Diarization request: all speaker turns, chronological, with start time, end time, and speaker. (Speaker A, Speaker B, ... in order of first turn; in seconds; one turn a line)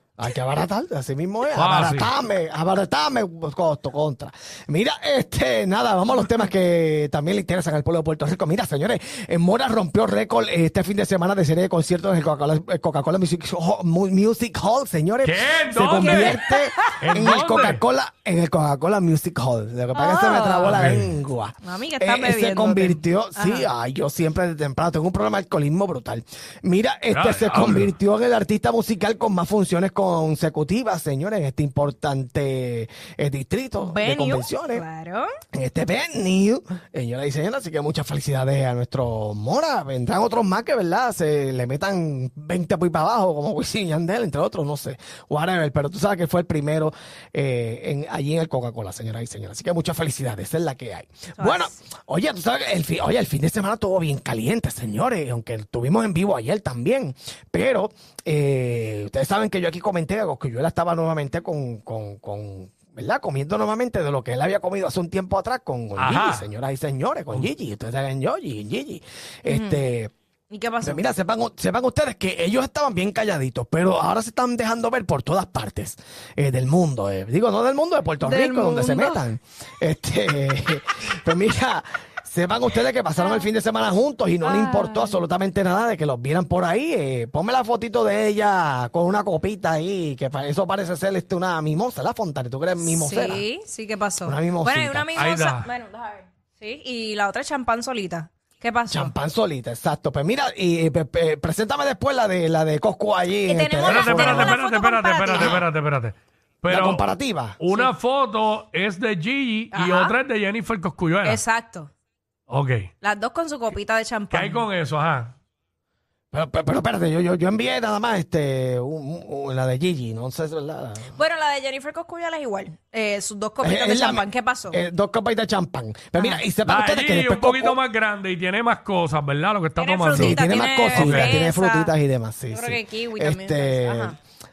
Speaker A: 0.2-34.8
Speaker B: 1.5-2.1
Speaker B: 15.2-17.8
Speaker C: 16.1-17.3
Speaker C: 19.9-20.9
Speaker B: 20.6-21.1
Speaker C: 21.6-23.7
Speaker B: 27.1-27.9
Speaker C: 33.9-35.3
Speaker A: 35.5-70.1
Speaker C: 51.4-51.8
Speaker B: 66.0-66.5
Speaker C: 69.5-69.8
Speaker C: 70.5-71.1
Speaker A: 70.8-93.5
Speaker C: 78.2-79.3
Speaker C: 83.2-83.4
Speaker C: 84.4-85.2
Speaker C: 92.8-99.1
Speaker A: 94.2-95.1
Speaker B: 95.2-95.7
Speaker A: 98.9-104.5
Speaker C: 103.5-105.6
Speaker B: 103.8-107.0
Speaker A: 105.3-105.6
Speaker A: 106.7-107.6
Speaker B: 107.6-111.4
Speaker C: 109.7-110.2
Speaker C: 111.2-111.9
Speaker B: 112.5-112.9
Speaker C: 113.0-114.6
Speaker B: 114.3-115.3
Speaker A: 116.3-121.2
Speaker C: 121.1-124.8
Speaker A: 123.6-127.8
Speaker C: 126.2-126.4
Speaker B: 126.7-131.4
Speaker C: 129.8-131.9
Speaker A: 130.1-134.2
Speaker C: 132.5-134.2